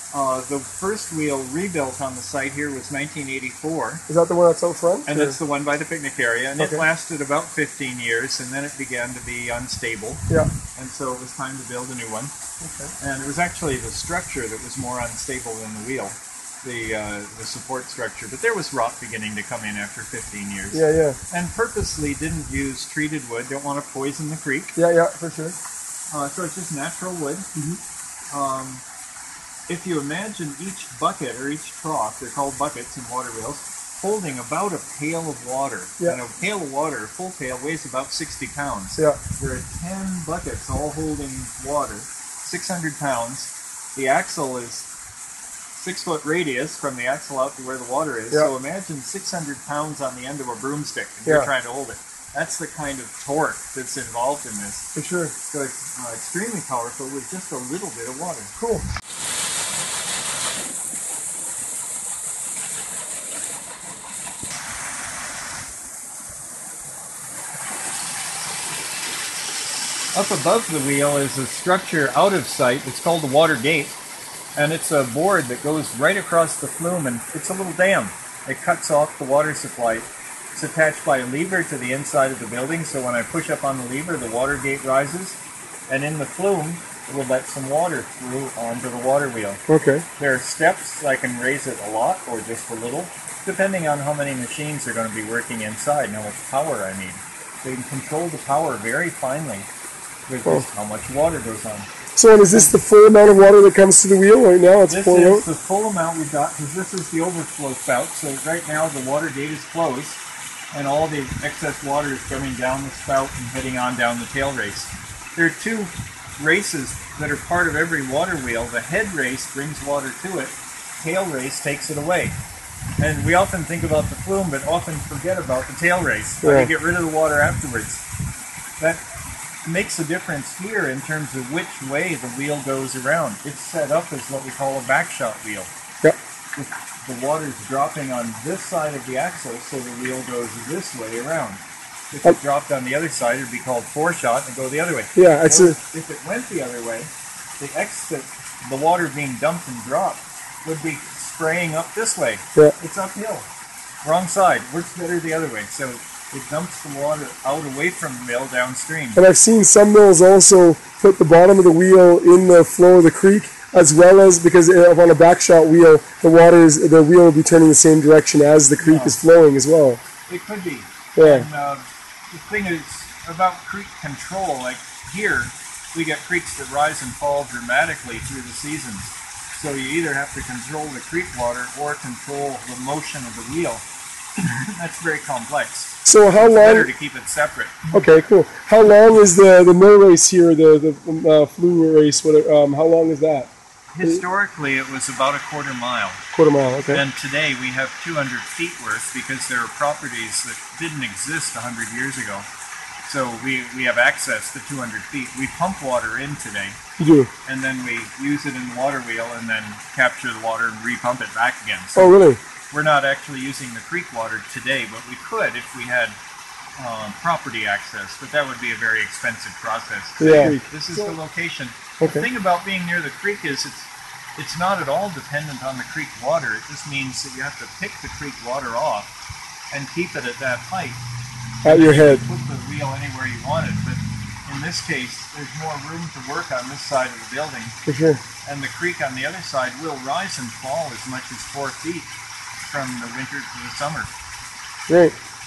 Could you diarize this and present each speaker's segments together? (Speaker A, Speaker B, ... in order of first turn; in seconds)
Speaker A: 0.1-4.0, 5.1-10.2, 10.8-12.3, 13.0-24.7, 26.1-27.4, 28.3-28.8, 29.7-44.9, 45.8-54.9, 55.5-58.5, 70.1-74.0, 74.5-89.6, 90.2-99.7, 100.3-101.9, 104.9-110.2, 110.7-122.3, 123.0-128.0, 129.6-135.7, 136.5-153.5, 154.0-159.2, 168.8-169.2, 170.3-183.8, 184.4-187.9, 193.9-196.2, 196.9-202.5, 203.0-206.8, 207.4-212.1, 212.7-216.2, 216.8-229.1, 229.7-231.0, 231.6-237.7, 238.4-244.1
Speaker B: 4.1-5.4, 6.6-6.8, 12.6-12.9, 20.7-21.2, 24.8-25.6, 54.9-55.3, 58.5-58.9, 89.7-90.0, 102.2-105.4, 126.4-126.7, 145.1-145.8, 159.1-170.0, 171.2-171.5, 186.0-186.9, 187.9-193.5, 196.3-197.0, 207.0-207.3, 211.9-212.4, 220.2-221.1, 222.0-222.3, 231.6-232.2, 237.8-238.2, 244.9-245.1